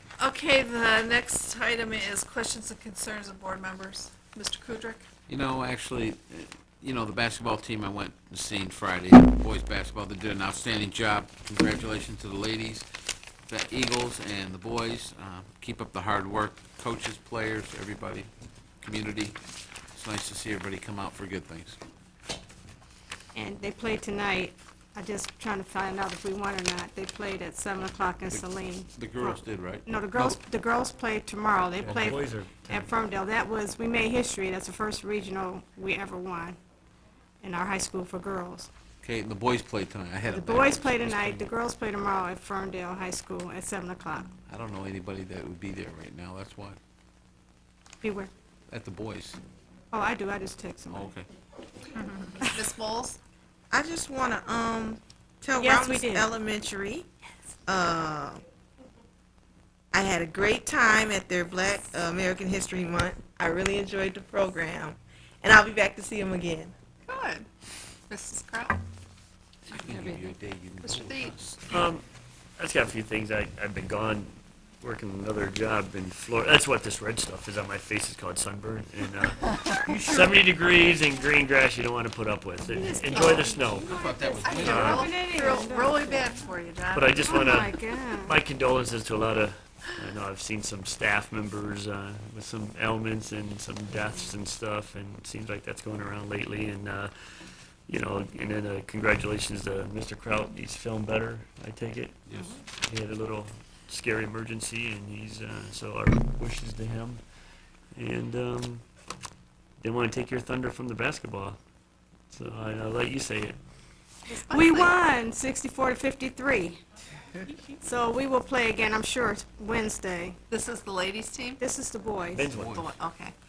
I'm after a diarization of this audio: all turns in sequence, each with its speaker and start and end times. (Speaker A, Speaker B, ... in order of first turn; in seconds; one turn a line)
Speaker A: 0.3-3.6
Speaker A: 4.2-4.9
Speaker B: 5.3-12.9
Speaker B: 13.5-18.3
Speaker B: 18.8-19.4
Speaker B: 19.9-21.8
Speaker C: 23.3-36.6
Speaker B: 28.3-30.4
Speaker D: 31.8-32.9
Speaker C: 37.4-38.7
Speaker B: 39.0-40.9
Speaker C: 40.2-44.3
Speaker D: 41.0-41.5
Speaker B: 44.5-46.8
Speaker C: 48.0-48.3
Speaker B: 48.7-49.4
Speaker C: 49.9-51.1
Speaker B: 50.9-51.2
Speaker C: 52.4-52.8
Speaker A: 52.5-53.2
Speaker E: 53.7-57.1
Speaker C: 55.6-56.3
Speaker E: 57.7-58.4
Speaker E: 59.9-66.7
Speaker A: 67.1-67.4
Speaker A: 68.1-68.8
Speaker B: 69.7-71.6
Speaker A: 69.8-70.2
Speaker A: 70.8-71.3
Speaker D: 71.7-72.0
Speaker D: 72.6-83.9
Speaker C: 82.8-86.5
Speaker B: 83.2-85.1
Speaker D: 84.6-85.1
Speaker D: 86.9-97.1
Speaker C: 87.1-88.4
Speaker D: 97.9-102.2
Speaker D: 102.9-107.2
Speaker D: 107.9-108.8
Speaker D: 109.8-111.6
Speaker D: 112.3-113.6
Speaker A: 114.3-114.9
Speaker C: 114.3-116.8
Speaker C: 117.8-120.4
Speaker A: 120.5-121.6
Speaker C: 121.6-122.5
Speaker D: 122.3-122.9
Speaker B: 122.5-123.0
Speaker A: 122.7-123.3